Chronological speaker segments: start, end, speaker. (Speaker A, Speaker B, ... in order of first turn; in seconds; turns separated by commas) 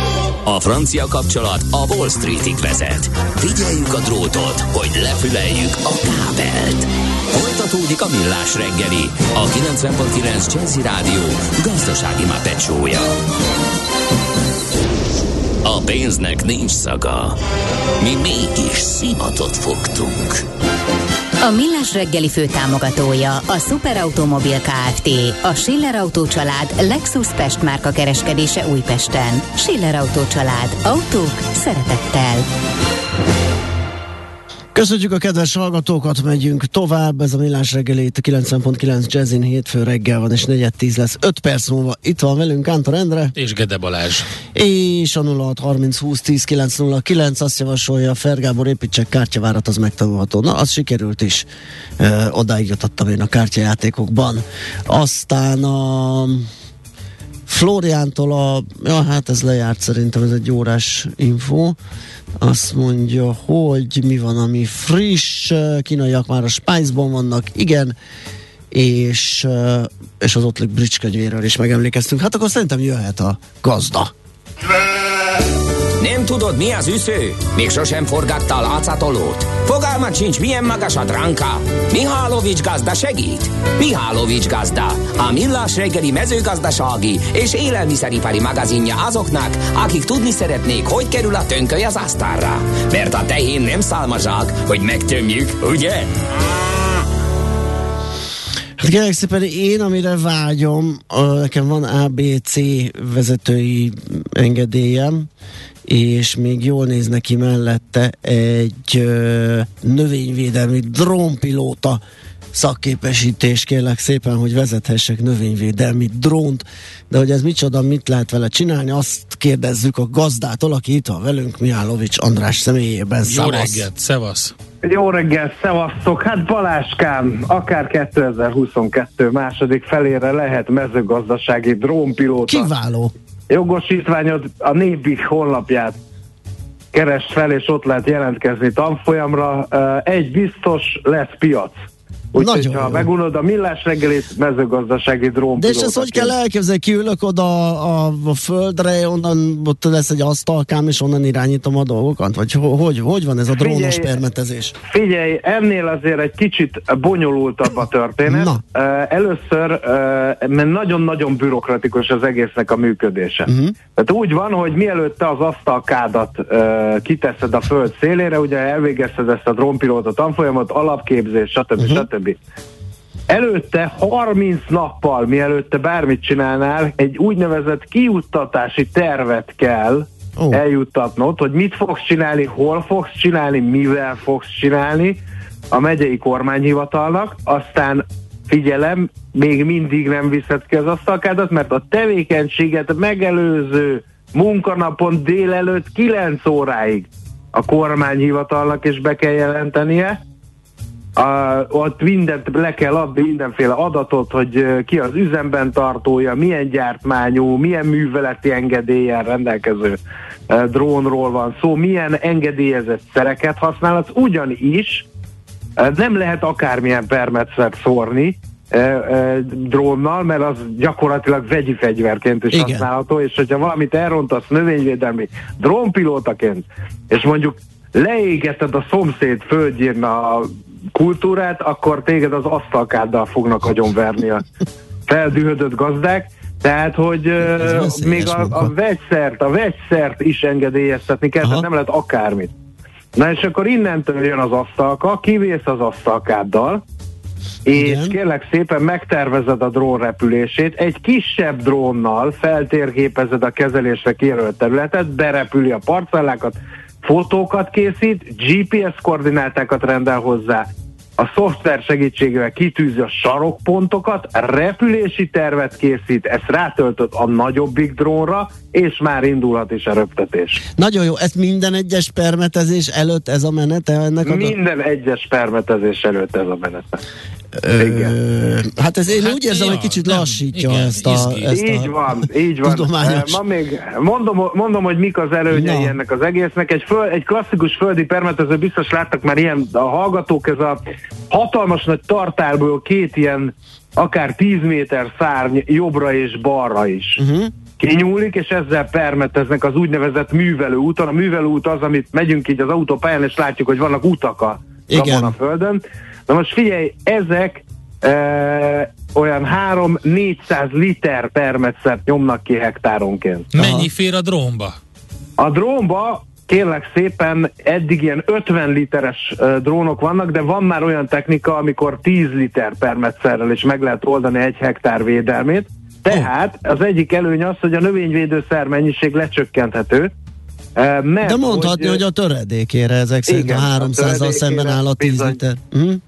Speaker A: 0.5-13.1, Speaker A: 15.6-17.4, Speaker A: 18.0-20.4, Speaker B: 21.4-32.5, Speaker C: 34.8-43.3, Speaker D: 43.4-44.3, Speaker C: 44.5-51.5, Speaker C: 52.0-56.5, Speaker C: 57.5-61.8, Speaker C: 62.4-68.0, Speaker C: 68.7-74.1, Speaker A: 76.0-96.2, Speaker C: 98.8-105.3, Speaker C: 105.9-112.0, Speaker C: 112.5-123.9, Speaker D: 123.2-124.5, Speaker E: 124.8-132.7, Speaker C: 132.5-133.1, Speaker E: 133.5-136.0, Speaker E: 136.9-141.8, Speaker E: 142.3-146.3, Speaker C: 142.4-143.1, Speaker C: 145.6-154.8, Speaker E: 153.6-154.2, Speaker E: 154.9-172.4, Speaker C: 158.3-158.6, Speaker C: 163.5-163.8, Speaker C: 171.8-172.1, Speaker E: 173.3-185.2, Speaker C: 180.4-180.6, Speaker E: 185.7-200.2, Speaker E: 201.2-210.0, Speaker E: 210.5-215.1, Speaker E: 215.8-234.5, Speaker C: 222.5-222.9, Speaker E: 235.1-242.5, Speaker C: 237.4-238.7, Speaker E: 243.2-246.8, Speaker E: 247.7-260.7, Speaker C: 247.7-248.2, Speaker E: 261.2-270.6, Speaker C: 270.8-274.6, Speaker E: 274.2-277.0, Speaker C: 277.6-282.0, Speaker E: 277.8-278.1, Speaker D: 279.2-281.5, Speaker E: 281.5-297.2, Speaker C: 282.6-283.4, Speaker C: 285.5-285.9, Speaker C: 297.2-297.5, Speaker E: 297.8-313.5, Speaker C: 304.9-305.3, Speaker D: 313.5-314.8, Speaker C: 313.6-313.9, Speaker E: 315.4-330.1, Speaker E: 330.8-332.0, Speaker C: 331.2-336.0, Speaker E: 333.3-335.4